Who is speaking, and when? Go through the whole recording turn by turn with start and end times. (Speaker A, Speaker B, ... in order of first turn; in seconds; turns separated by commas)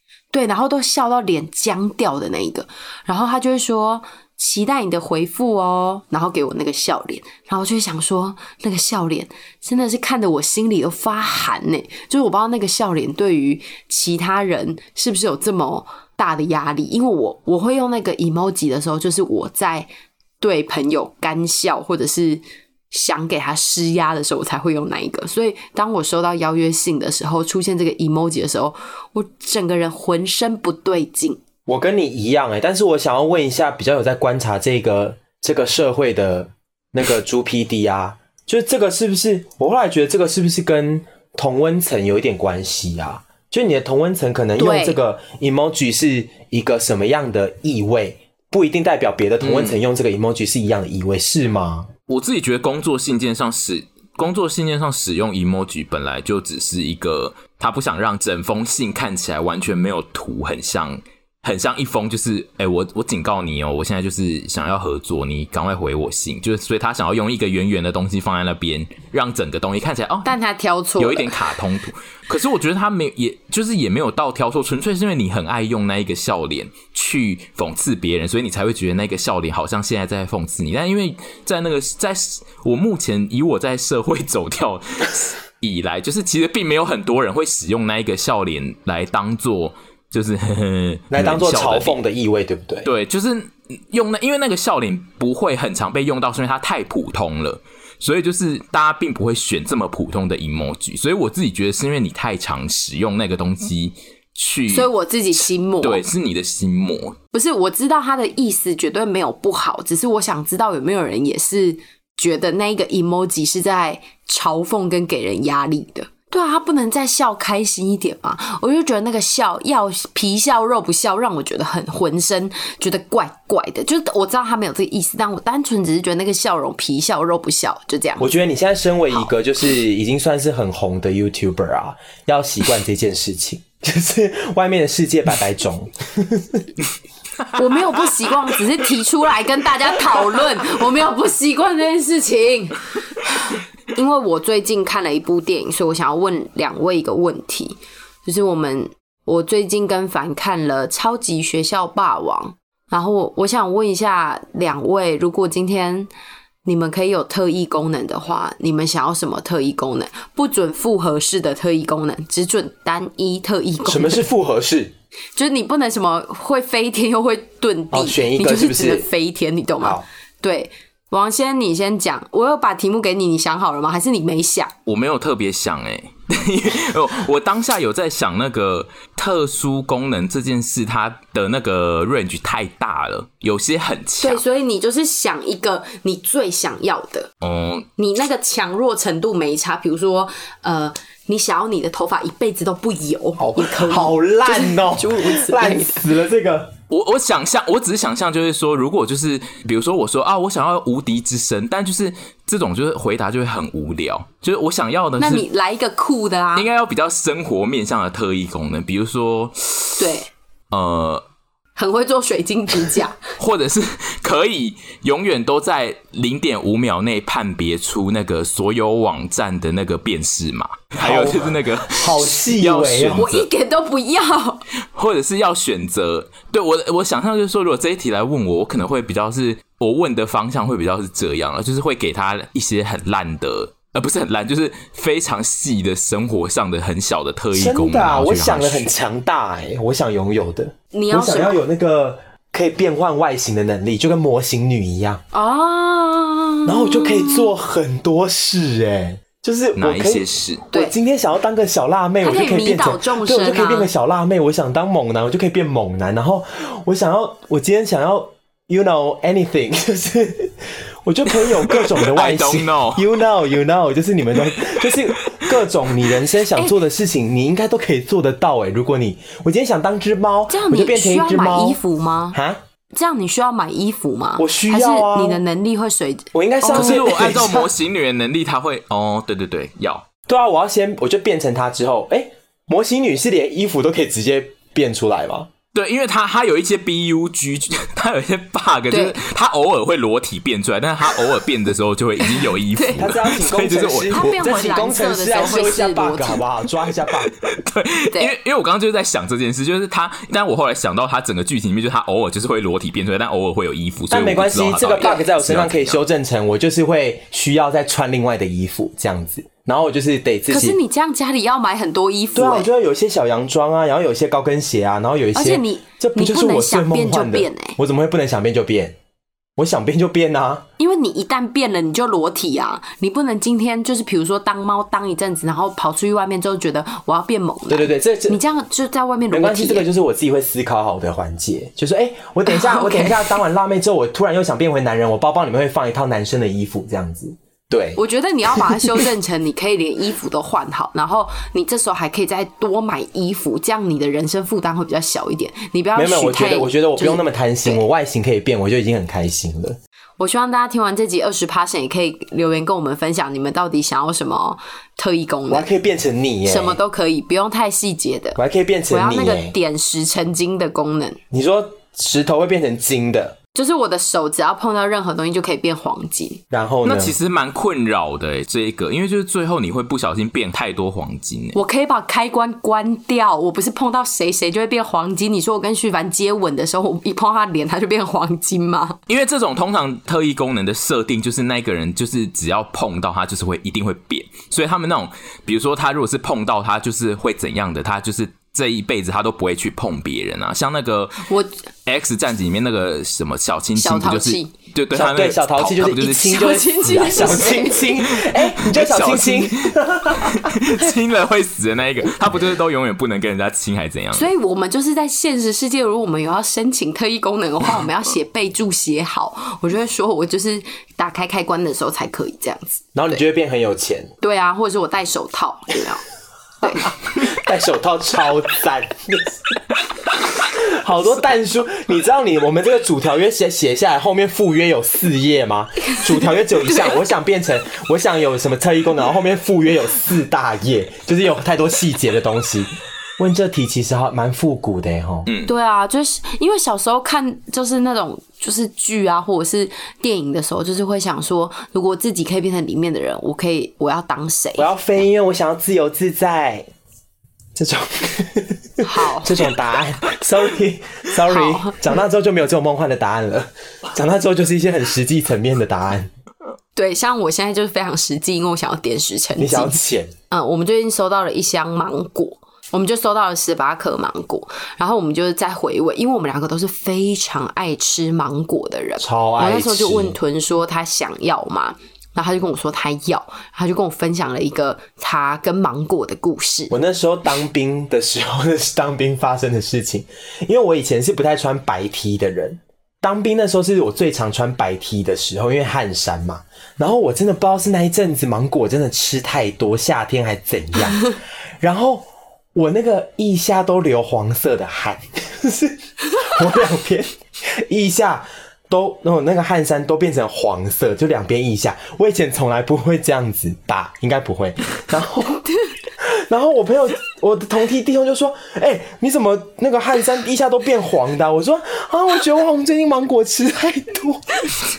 Speaker A: 0.3-19.9, Speaker A: 20.4-31.4, Speaker B: 31.7-51.9, Speaker A: 44.6-45.0, Speaker C: 49.4-49.8, Speaker C: 52.1-70.3, Speaker A: 70.2-71.5, Speaker C: 71.0-92.0, Speaker B: 91.1-92.9, Speaker C: 92.9-104.9, Speaker A: 104.7-106.1, Speaker C: 105.8-107.2, Speaker A: 107.3-128.3, Speaker B: 128.2-136.6, Speaker A: 137.5-156.1, Speaker A: 156.7-164.3, Speaker B: 163.8-164.9, Speaker A: 165.4-174.7, Speaker B: 167.9-169.1, Speaker B: 169.8-170.1, Speaker C: 174.9-184.4, Speaker A: 184.2-187.3, Speaker C: 187.4-187.9, Speaker A: 188.0-196.1, Speaker B: 193.4-196.7, Speaker C: 196.9-205.5, Speaker A: 205.2-206.7, Speaker C: 206.6-210.1, Speaker A: 210.0-210.3, Speaker C: 210.7-211.2, Speaker A: 211.8-213.2, Speaker C: 213.4-223.5, Speaker B: 221.0-223.3, Speaker A: 223.2-224.6, Speaker C: 224.9-238.9, Speaker B: 237.5-245.2, Speaker A: 240.9-241.6, Speaker A: 245.3-247.5, Speaker B: 246.7-271.8, Speaker C: 249.8-250.7, Speaker A: 252.2-253.9, Speaker C: 261.5-263.1, Speaker C: 264.4-266.0, Speaker A: 266.6-266.8, Speaker A: 270.5-272.4, Speaker B: 272.3-272.6, Speaker A: 272.9-277.1, Speaker B: 274.4-275.4, Speaker B: 276.3-277.7, Speaker C: 276.7-280.0, Speaker B: 280.3-285.5, Speaker C: 285.8-294.6, Speaker A: 288.9-289.2, Speaker A: 292.7-293.1, Speaker B: 293.0-297.3, Speaker A: 294.1-296.4, Speaker C: 297.1-306.0, Speaker B: 304.1-310.8, Speaker A: 305.0-305.2, Speaker A: 310.5-312.7, Speaker B: 312.3-318.9, Speaker A: 315.4-317.8, Speaker B: 319.6-320.6, Speaker A: 320.8-329.9, Speaker B: 327.7-328.4, Speaker B: 329.3-338.0, Speaker A: 332.5-333.4, Speaker A: 338.0-347.8, Speaker B: 345.9-349.8, Speaker A: 350.2-355.7, Speaker B: 355.5-356.8, Speaker A: 356.4-358.4, Speaker B: 358.4-359.6, Speaker A: 358.9-361.2, Speaker B: 361.3-363.4, Speaker A: 363.5-366.4, Speaker B: 366.5-367.2, Speaker C: 366.9-371.6, Speaker A: 371.5-379.0, Speaker C: 379.1-391.3, Speaker A: 391.3-391.6, Speaker C: 391.9-404.3, Speaker A: 393.8-394.5, Speaker B: 394.9-400.8, Speaker A: 395.8-397.9, Speaker A: 404.1-412.9, Speaker B: 412.9-414.1, Speaker A: 414.2-416.0, Speaker A: 416.6-416.9, Speaker B: 417.1-419.3, Speaker B: 420.4-435.3, Speaker A: 435.4-444.7, Speaker B: 444.6-446.7, Speaker B: 447.6-456.1, Speaker A: 448.8-449.4, Speaker A: 451.3-451.8, Speaker A: 456.8-459.8, Speaker B: 459.4-460.1, Speaker A: 460.3-476.7, Speaker B: 469.0-470.2, Speaker B: 476.7-505.5, Speaker B: 506.0-514.5